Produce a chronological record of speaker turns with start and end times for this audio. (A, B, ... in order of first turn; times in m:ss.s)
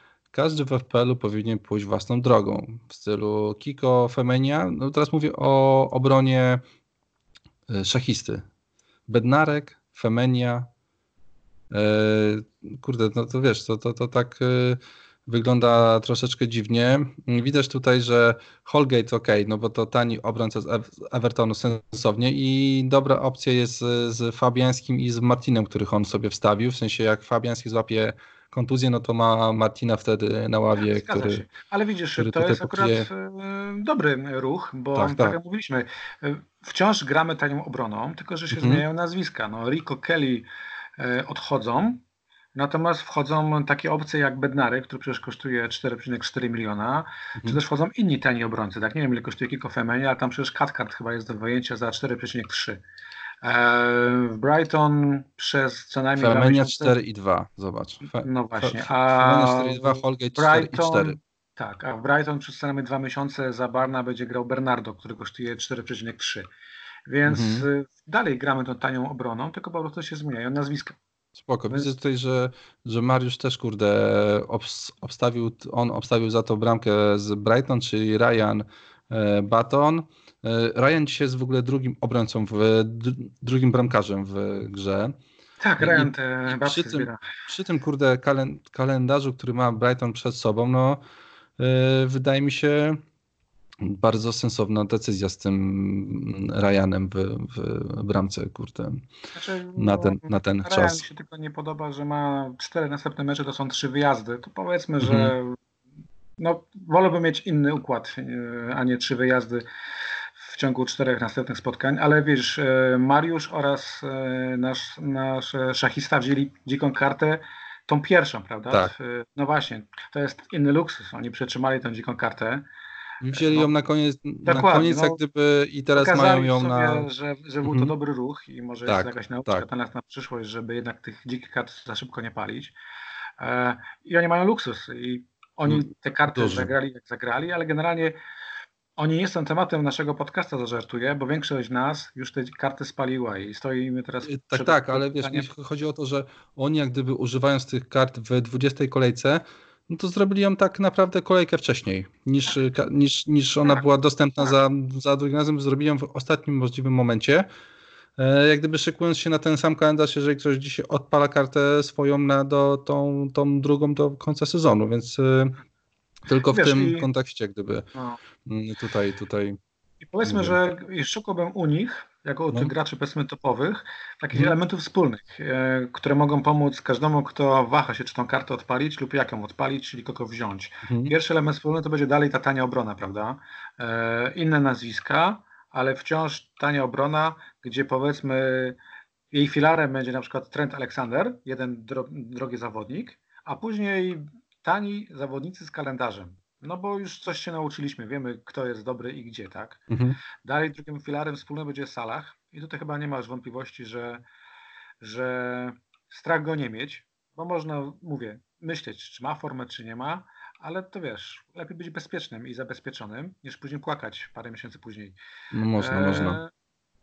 0:00.3-0:06.6 A
0:07.7-0:08.5 A
0:09.1-0:10.7 A
0:11.7-0:31.4 A
0:30.8-0:40.5 B
0:32.2-0:33.1 A
0:35.0-0:35.4 A
0:38.5-0:38.8 A
0:41.0-0:42.0 B
0:42.6-0:52.8 B
0:53.4-0:57.0 B
0:56.2-1:01.2 A
0:58.1-1:06.5 B
1:07.1-1:11.0 B
1:07.3-1:07.7 A
1:11.4-1:25.2 A
1:11.7-1:11.9 B
1:25.6-1:27.2 B
1:25.8-1:31.0 A
1:31.6-1:33.0 A
1:33.8-1:39.1 A
1:39.3-1:45.6 B
1:39.8-1:41.0 A
1:45.0-1:45.3 A
1:46.4-1:49.6 B
1:50.4-2:02.7 B
2:03.2-2:07.1 A
2:03.3-2:03.7 B
2:04.4-2:05.2 B
2:06.0-2:12.8 B
2:07.6-2:07.9 A
2:08.9-2:09.7 A
2:13.4-2:18.2 B
2:15.6-2:16.7 A
2:19.0-2:25.5 B
2:24.3-2:37.5 A
2:38.2-2:45.6 A
2:46.3-2:47.9 A
2:46.5-2:47.1 B
2:48.4-2:49.6 A
2:50.0-3:08.8 B
2:50.2-2:50.6 A
3:00.8-3:01.1 A
3:09.3-3:19.8 B
3:19.9-3:20.2 A
3:20.4-3:24.2 B
3:25.0-3:35.2 B
3:35.5-3:36.4 A
3:35.8-3:36.5 B